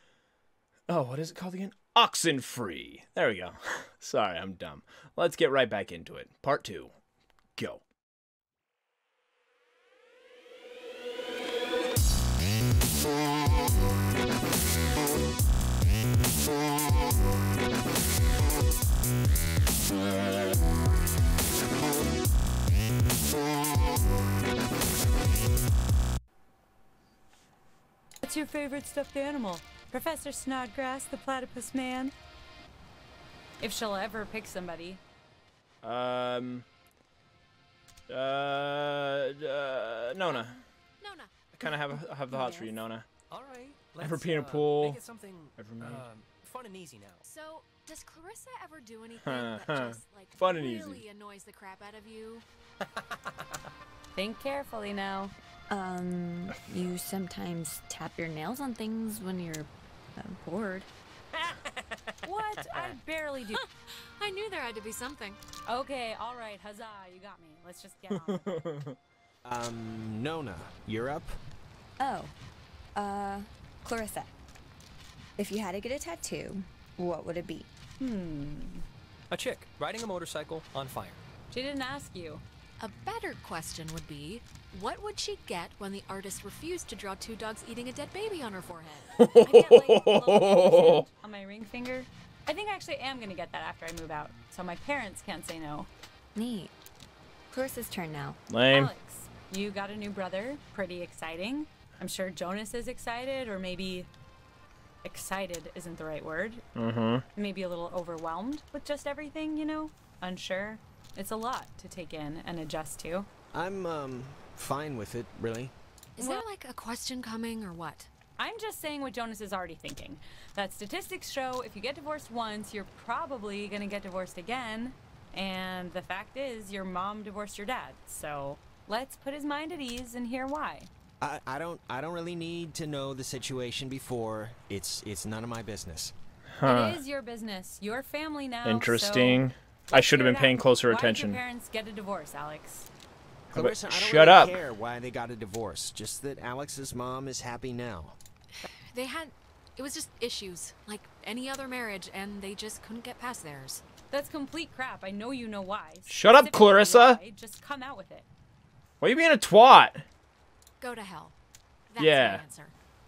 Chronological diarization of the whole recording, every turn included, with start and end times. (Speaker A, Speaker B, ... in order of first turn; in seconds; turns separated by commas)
Speaker A: 0.9-6.9, Speaker A: 7.6-7.8, Speaker B: 28.2-32.1, Speaker B: 33.6-35.0, Speaker A: 35.8-36.6, Speaker A: 38.1-40.6, Speaker C: 40.3-41.5, Speaker A: 41.6-43.1, Speaker C: 42.4-42.7, Speaker D: 43.3-47.2, Speaker A: 44.0-45.0, Speaker A: 45.6-46.0, Speaker C: 47.2-52.4, Speaker A: 49.2-51.0, Speaker D: 52.8-53.6, Speaker B: 54.1-55.3, Speaker E: 55.7-60.9, Speaker D: 61.4-63.0, Speaker B: 62.2-63.6, Speaker C: 63.4-65.4, Speaker B: 65.7-68.6, Speaker A: 68.1-69.0, Speaker F: 69.4-71.3, Speaker E: 72.0-72.3, Speaker E: 72.9-74.3, Speaker E: 75.4-77.7, Speaker B: 78.0-78.8, Speaker D: 79.3-81.2, Speaker B: 81.5-82.4, Speaker C: 82.8-90.7, Speaker A: 89.2-91.1, Speaker B: 90.2-95.9, Speaker E: 96.3-96.7, Speaker E: 97.5-98.4, Speaker A: 98.5-98.9, Speaker B: 98.6-104.1, Speaker B: 105.0-106.6, Speaker A: 106.7-107.2, Speaker B: 107.3-113.3, Speaker F: 113.5-115.7, Speaker C: 116.2-118.1, Speaker B: 118.4-130.9, Speaker F: 131.2-136.1, Speaker A: 136.5-137.0, Speaker B: 136.6-142.9, Speaker A: 138.6-141.4, Speaker F: 143.5-148.2, Speaker A: 143.5-144.6, Speaker C: 148.6-153.8, Speaker B: 154.1-158.3, Speaker A: 156.1-157.2, Speaker A: 159.0-160.0, Speaker C: 160.8-161.3, Speaker C: 161.9-162.7, Speaker A: 162.0-162.4